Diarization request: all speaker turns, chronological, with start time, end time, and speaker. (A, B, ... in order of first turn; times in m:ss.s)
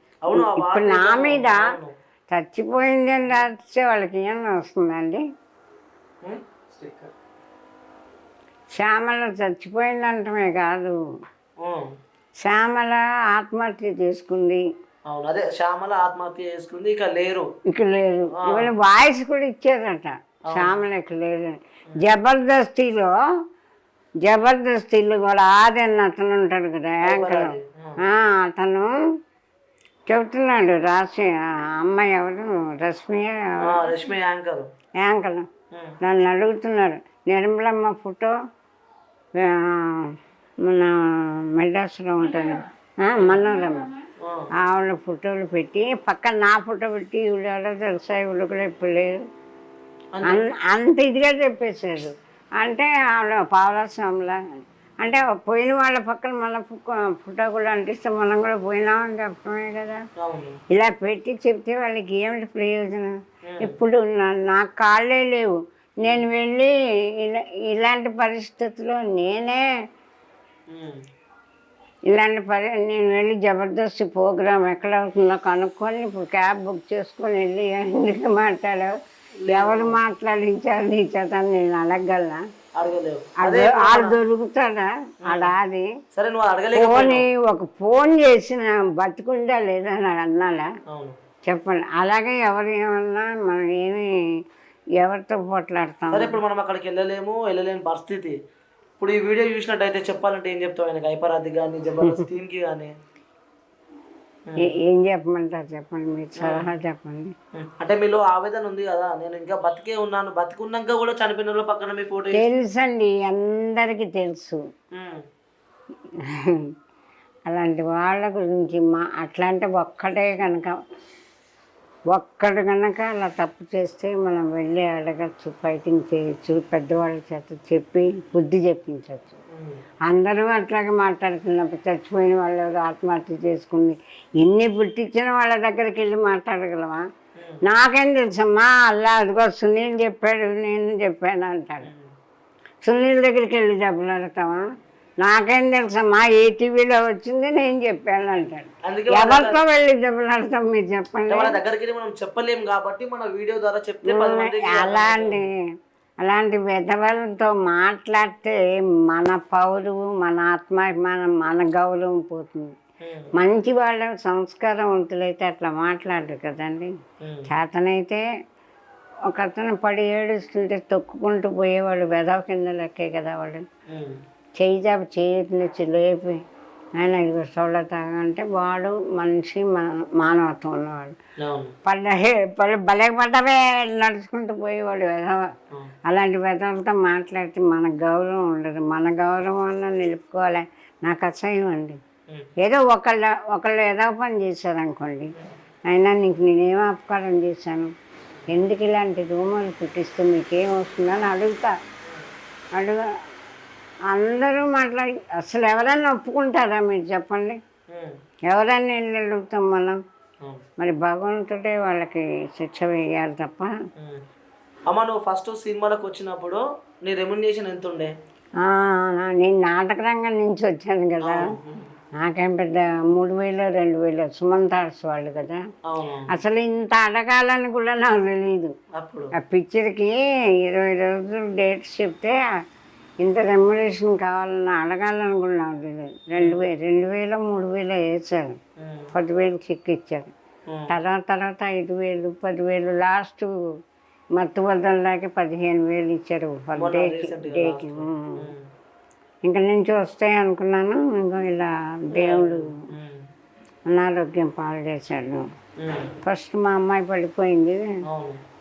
0:00.3-0:01.9 A
0:00.3-0:01.6 B
0:02.3-0:05.2 B
0:06.2-0:07.1 A
0:08.7-0:11.0 B
0:11.6-0:11.9 A
0:12.4-0:14.6 B
0:15.1-0:17.5 A
0:17.7-0:23.2 B
0:18.4-0:18.7 A
0:20.5-0:20.8 A
0:24.2-0:28.9 B
0:27.1-0:28.0 A
0:30.1-0:33.6 B
0:33.6-0:34.7 A
0:35.0-0:35.5 B
0:36.0-0:38.3 B
0:39.4-0:43.9 B
0:44.6-0:49.2 B
0:50.2-0:50.5 A
0:50.2-0:54.4 B
0:55.0-1:00.0 B
1:00.2-1:00.6 A
1:00.7-1:09.6 B
1:03.5-1:03.8 A
1:10.7-1:11.0 A
1:12.1-1:18.9 B
1:19.4-1:20.0 A
1:19.5-1:22.4 B
1:22.8-1:24.2 A
1:23.4-1:25.9 B
1:26.1-1:27.2 A
1:26.7-1:30.7 B
1:30.9-1:31.2 A
1:31.5-1:34.1 B
1:35.0-1:36.4 B
1:36.1-1:38.4 A
1:39.0-1:42.9 A
1:44.6-1:47.3 B
1:47.6-1:52.5 A
1:52.3-1:54.6 B
1:56.2-1:56.7 B
1:57.5-2:00.7 B
2:02.1-2:09.4 B
2:09.6-2:09.8 A
2:10.1-2:17.1 B
2:17.6-2:21.9 B
2:22.8-2:24.6 B
2:25.2-2:31.6 B
2:28.9-2:29.6 A
2:31.3-2:35.4 A
2:34.1-2:35.5 B
2:36.2-2:42.7 B
2:43.0-2:43.3 A
2:43.4-2:46.9 B
2:47.2-2:47.5 A
2:47.5-2:48.2 B
2:49.3-2:53.6 B
2:53.9-2:54.2 A
2:54.6-2:56.4 B
2:57.0-3:01.2 B
3:01.4-3:01.7 A
3:01.9-3:05.4 B
3:06.1-3:12.0 B
3:12.6-3:15.3 B
3:15.9-3:17.9 B
3:18.5-3:21.8 B
3:22.8-3:23.0 B
3:24.1-3:27.6 B
3:28.5-3:30.0 B
3:30.8-3:33.7 B
3:34.9-3:38.1 A
3:38.6-3:41.4 B
3:41.2-3:41.9 A
3:42.2-3:45.6 B
3:45.9-3:46.3 A
3:46.3-3:48.8 B
3:49.0-3:49.3 A
3:49.4-3:52.4 B
3:53.2-3:58.6 B
3:58.8-3:59.1 A
3:59.1-4:00.3 B
4:00.9-4:03.5 B
4:04.4-4:08.5 B
4:06.8-4:08.6 A
4:09.4-4:12.7 B
4:12.1-4:13.2 A
4:13.9-4:15.4 B
4:15.8-4:16.1 A
4:16.2-4:17.8 B
4:18.1-4:18.4 A